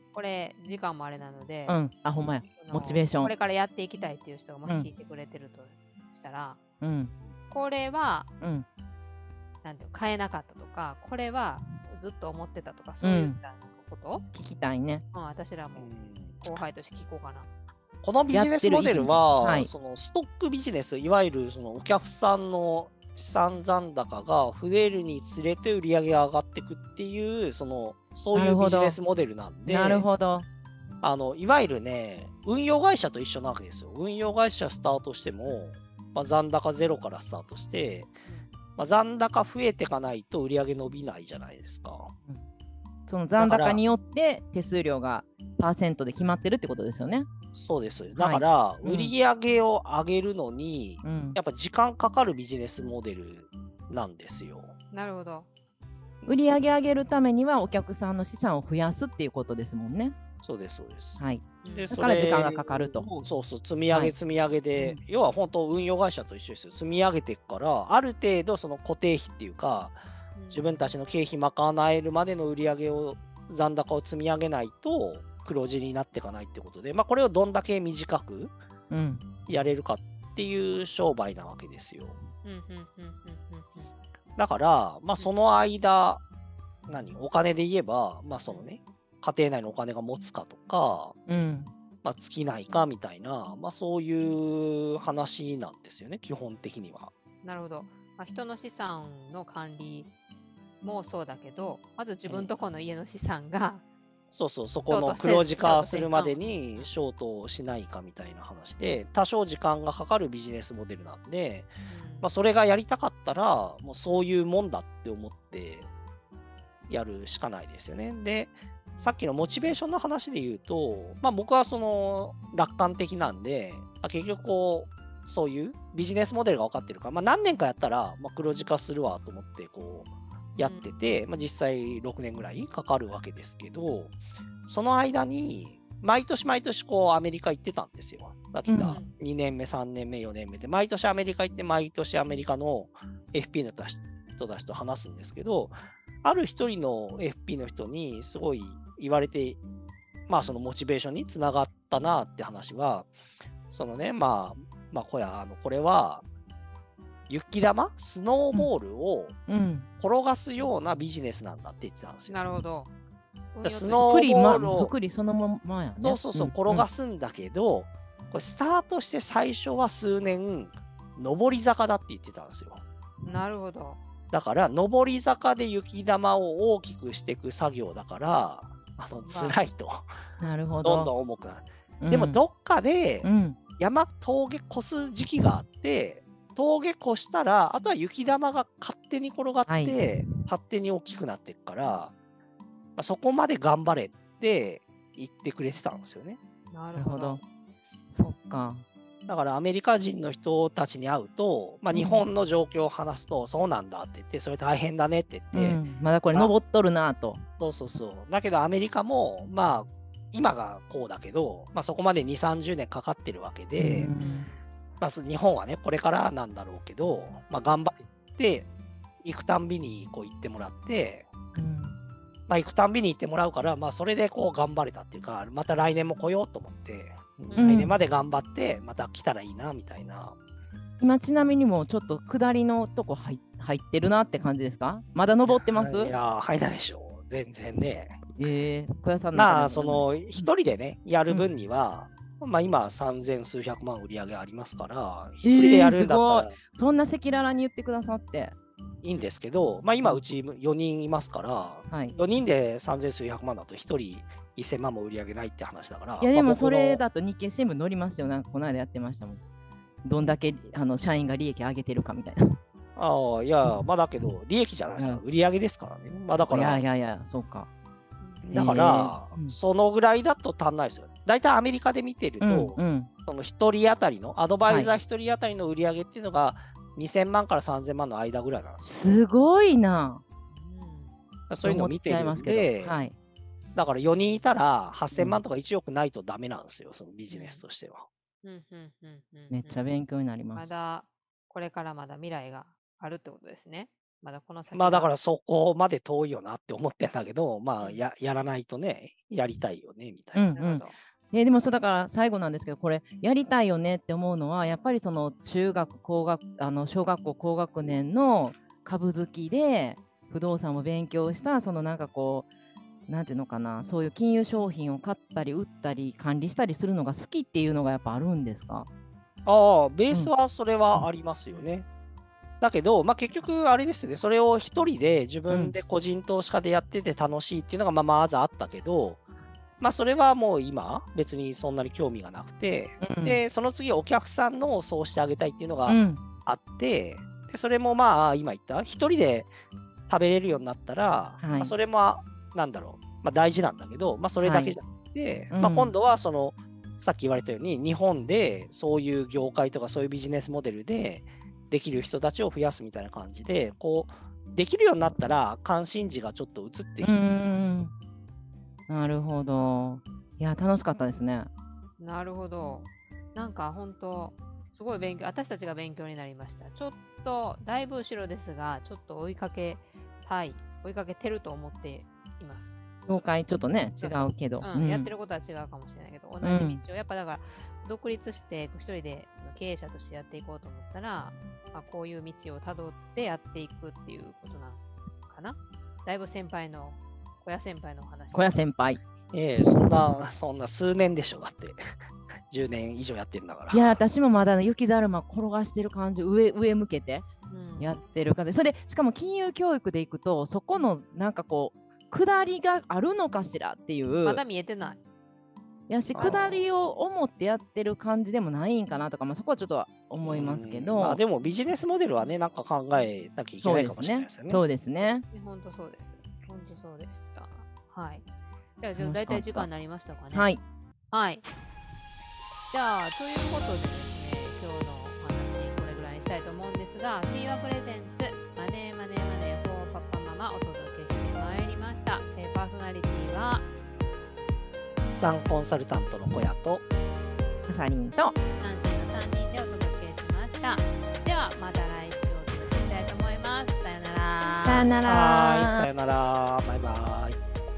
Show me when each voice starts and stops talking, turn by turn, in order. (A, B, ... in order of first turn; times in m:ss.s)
0:00.1-0:01.8 A
0:01.7-0:03.3 B
0:02.6-0:06.6 A
0:06.8-0:07.1 B
0:07.5-0:08.3 A
0:08.4-0:08.6 B
0:09.6-0:14.2 A
0:13.0-0:13.4 B
0:14.3-0:15.0 B
0:15.1-0:15.9 A
0:15.8-0:16.4 C
0:16.4-0:17.5 A
0:18.0-0:30.1 C
0:18.3-0:19.7 B
0:28.3-0:29.0 B
0:29.7-0:30.4 B
0:31.0-0:38.1 C
0:38.8-0:42.1 C
0:43.1-0:47.3 B
0:43.4-0:43.8 C
0:47.5-0:54.7 C
0:48.2-0:49.1 B
0:51.0-0:51.4 B
0:54.9-0:55.5 A
0:56.2-1:00.1 B
1:00.4-1:10.0 C
1:01.2-1:03.1 B
1:01.6-1:01.9 A
1:10.3-1:10.7 A
1:10.5-1:18.5 C
1:18.9-1:19.3 B
1:19.5-1:22.2 C
1:22.4-1:23.9 A
1:24.4-1:26.2 C
1:26.9-1:31.2 C
1:31.3-1:31.7 B
1:32.0-1:37.1 C
1:37.4-1:40.1 A
1:40.8-1:43.8 A
1:44.3-1:55.9 C
1:44.8-1:46.9 A
1:51.9-1:52.3 A
1:56.9-2:29.6 C
2:10.6-2:11.0 A
2:18.7-2:19.0 B
2:30.3-2:33.1 C
2:33.7-2:36.2 C
2:37.3-2:39.4 C
2:39.5-2:39.9 B
2:40.0-2:42.5 C
2:42.3-2:42.9 A
2:43.5-2:44.1 A
2:43.6-2:44.9 C
2:44.0-2:46.9 B
2:46.0-2:52.8 C
2:53.2-2:54.0 A
2:54.3-3:00.1 C
2:59.2-2:59.6 A
3:00.4-3:01.1 B
3:00.8-3:12.1 C
3:02.0-3:02.4 B
3:03.2-3:03.6 B
3:09.7-3:10.3 B
3:13.0-3:16.4 C
3:16.7-3:17.4 A
3:16.9-3:17.4 B
3:18.1-3:18.8 B
3:19.3-3:25.8 C
3:21.9-3:22.2 B
3:25.5-3:27.4 B
3:27.6-3:34.1 C
3:33.8-3:34.5 B
3:34.2-3:34.6 A
3:35.0-3:38.7 C
3:39.2-3:41.3 C
3:41.5-3:42.0 B
3:42.5-3:50.4 C
3:47.5-3:47.8 A
3:47.6-3:47.9 B
3:51.0-3:56.1 B
3:55.4-3:58.2 C
3:58.4-4:00.5 B
3:59.3-4:06.6 C
4:05.4-4:08.6 B
4:09.0-4:17.0 C
4:11.9-4:12.1 B
4:16.2-4:19.4 B
4:20.0-4:22.6 B
4:23.0-4:26.8 C
4:24.9-4:25.2 B
4:26.5-4:27.7 B
4:28.4-4:38.9 C
4:28.5-4:29.5 B
4:32.4-4:33.1 B
4:34.6-4:34.9 B
4:38.8-4:40.2 B
4:40.5-4:41.1 A
4:41.5-4:42.9 C
4:41.6-4:43.1 B
4:43.7-4:48.1 C
4:45.1-4:45.4 B
4:47.3-4:47.6 A
4:48.4-4:49.8 A
4:49.5-4:50.7 B
4:50.5-4:55.1 A
4:54.7-5:00.4 C
5:00.3-5:12.5 B
5:00.5-5:00.9 A
5:13.1-5:18.9 B
5:19.4-5:21.9 C
5:22.6-5:29.2 C
5:25.5-5:25.7 B
5:29.8-5:39.5 C
5:33.0-5:33.4 B
5:35.9-5:36.2 B
5:40.1-5:57.2 C
5:41.4-5:41.7 B
5:44.4-5:44.8 B
5:45.5-5:45.9 B
5:57.0-5:57.9 B
5:58.9-6:01.5 B
6:02.0-6:12.8 A
6:13.1-6:15.1 B
6:14.0-6:28.6 A
6:16.4-6:16.8 B
6:28.3-6:29.0 B
6:29.3-6:31.8 C
6:32.5-6:34.0 C
6:33.7-6:37.3 B
6:37.5-6:38.0 A
6:37.8-6:44.4 B
6:44.2-6:45.0 A
6:45.9-6:51.2 B
6:46.1-6:46.6 C
6:50.2-6:54.6 C
6:53.6-6:55.2 B
6:55.0-6:58.2 A
6:58.8-7:00.5 A
6:59.0-6:59.7 B
7:00.3-7:00.6 B
7:01.1-7:01.4 A
7:02.7-7:13.7 A
7:15.1-7:16.8 C
7:17.7-7:18.3 B
7:18.6-7:24.9 A
7:24.6-7:25.9 B
7:25.0-7:27.4 C